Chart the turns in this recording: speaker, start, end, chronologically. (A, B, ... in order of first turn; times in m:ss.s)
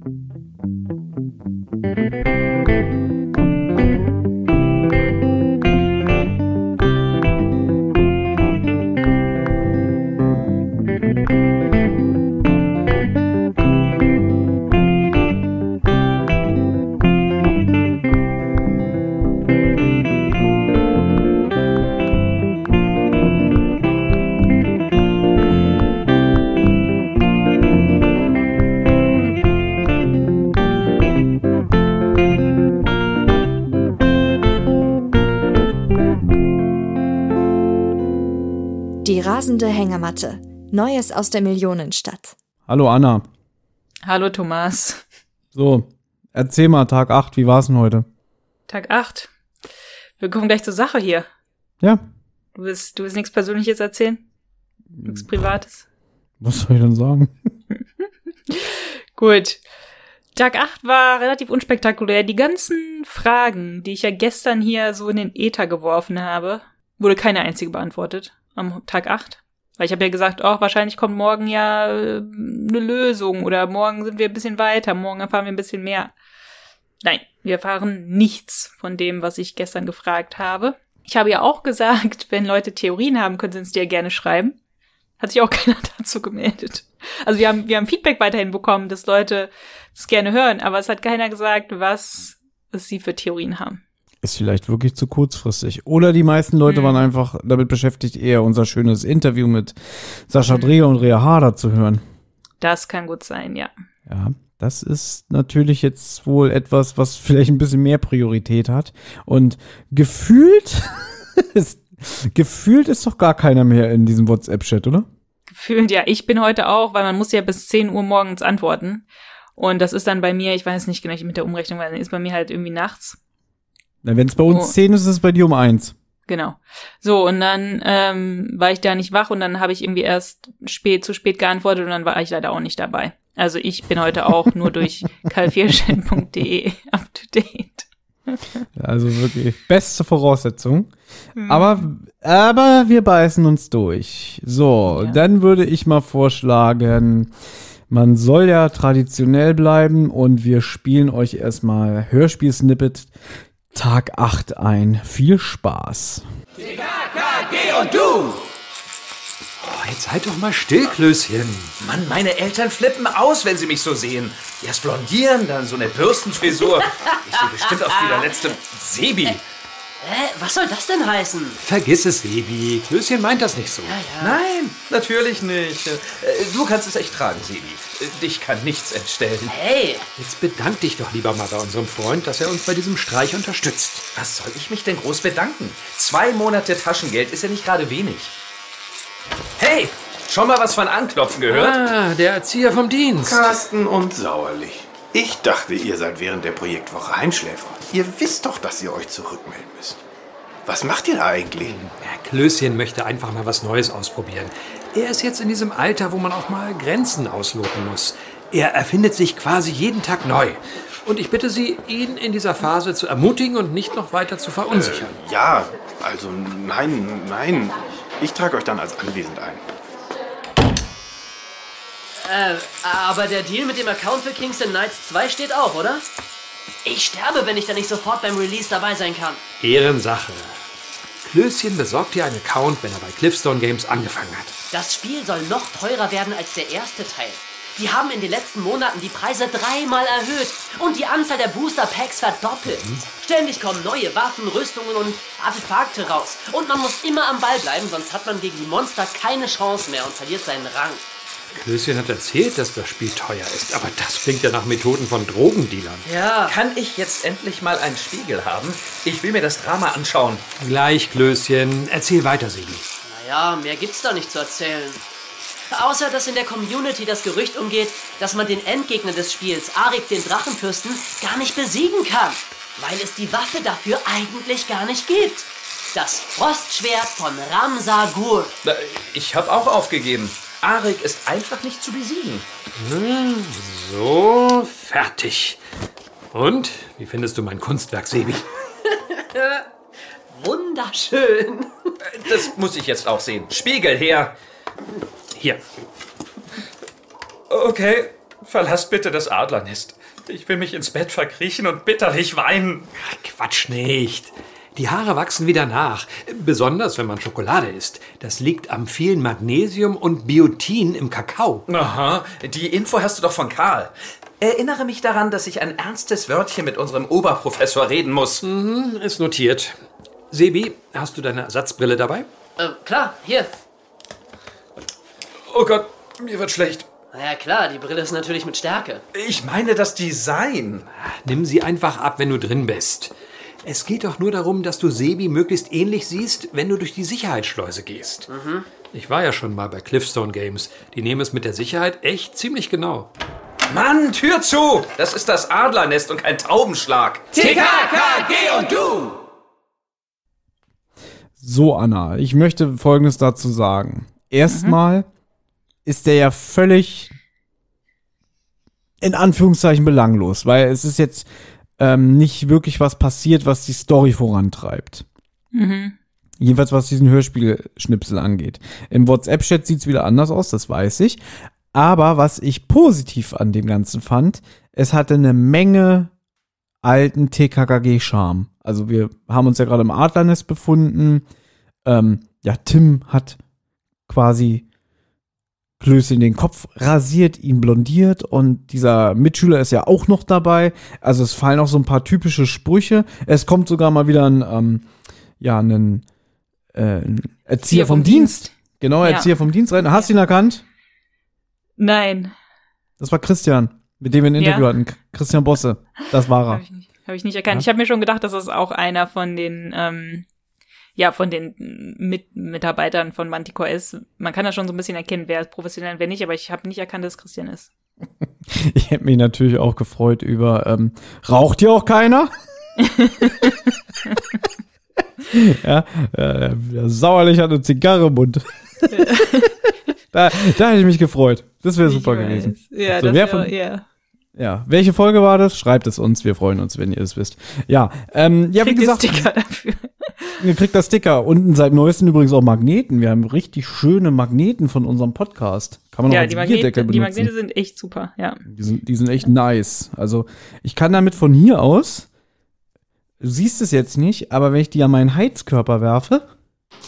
0:39.0-0:42.3 A
0:42.7-0:43.3 B
0:44.0-0:45.0 C
0:45.5-0:48.1 B
0:48.7-0:49.3 C
0:50.2-0:51.3 C
0:52.5-0:54.2 C
0:55.0-0:55.2 B
0:55.0-0:55.8 C
0:56.4-0:57.3 B
0:58.5-0:59.6 C
1:00.3-1:16.1 C
1:17.0-1:24.6 C
1:25.2-1:33.8 C
1:34.2-1:39.8 B
1:36.7-1:37.0 C
1:40.3-1:42.0 B
1:40.5-1:40.8 C
1:42.6-1:43.7 C
1:44.1-1:55.1 B
1:55.5-1:59.0 C
1:59.6-2:03.2 C
2:04.0-2:05.9 B
2:06.3-2:18.4 C
2:18.8-2:20.9 B
2:21.4-2:21.7 C
2:21.4-2:27.3 B
2:24.9-2:25.2 C
2:27.9-2:33.1 B
2:33.7-2:36.2 B
2:37.2-2:38.4 D
2:39.6-2:41.7 E
2:41.8-2:49.4 D
2:46.6-2:48.4 F
2:50.0-2:51.6 F
2:51.6-2:54.0 E
2:53.8-2:54.4 F
2:54.2-2:59.5 D
2:59.5-3:00.1 F
3:00.2-3:04.0 E
3:04.1-3:08.3 D
3:09.6-3:11.8 D
3:11.5-3:13.6 E
3:13.2-3:20.0 G
3:20.7-3:21.8 G
3:21.8-3:35.2 E
3:34.7-3:39.6 G
3:42.2-3:46.0 F
3:46.8-3:49.4 F
3:49.6-3:50.6 E
3:51.2-3:54.5 E
3:54.7-4:11.0 F
4:02.7-4:03.0 E
4:11.5-4:16.1 E
4:16.0-4:16.6 F
4:16.5-4:20.4 D
4:20.6-4:22.8 E
4:23.0-4:25.0 F
4:25.7-4:38.5 F
4:38.6-4:42.5 D
4:42.8-4:45.6 E
4:46.3-4:48.4 E
4:49.1-4:49.6 F
4:50.3-4:52.4 F
4:52.0-4:54.3 D
4:55.3-4:55.6 E
4:57.5-5:02.9 D
5:02.9-5:11.6 E
5:11.7-5:18.4 D
5:18.4-5:19.8 E
5:20.3-5:22.3 E
5:22.6-5:23.6 F
5:25.5-5:26.9 D
5:27.1-5:29.0 F
5:29.1-5:30.8 D
5:31.0-5:33.1 E
5:33.6-5:38.3 E
5:38.3-5:38.7 F
5:38.9-5:43.1 E
5:43.7-5:49.2 D
5:51.4-5:55.0 B
5:54.5-5:54.8 C
5:55.8-5:57.1 B
5:59.0-6:01.3 B
6:01.8-6:05.0 B
6:05.5-6:05.9 C
6:06.4-6:16.1 B
6:16.8-6:21.2 B
6:21.8-6:23.4 B
6:24.1-6:24.6 B
6:25.8-6:34.8 B
6:35.4-6:36.0 B
6:36.7-6:40.6 B
6:37.7-6:40.1 C
6:41.8-6:42.3 C
6:43.0-6:46.6 B
6:44.4-6:44.7 C
6:46.5-6:50.2 C
6:51.0-6:57.7 C
6:58.5-7:02.3 B
7:02.8-7:04.2 C
7:05.3-7:09.3 B
7:08.9-7:09.5 C
7:10.1-7:13.5 B
7:11.8-7:13.8 C
7:14.4-7:19.3 B
7:18.6-7:20.4 C
7:20.4-7:27.3 B
7:26.1-7:28.4 C
7:28.5-7:32.1 B
7:33.2-7:36.3 B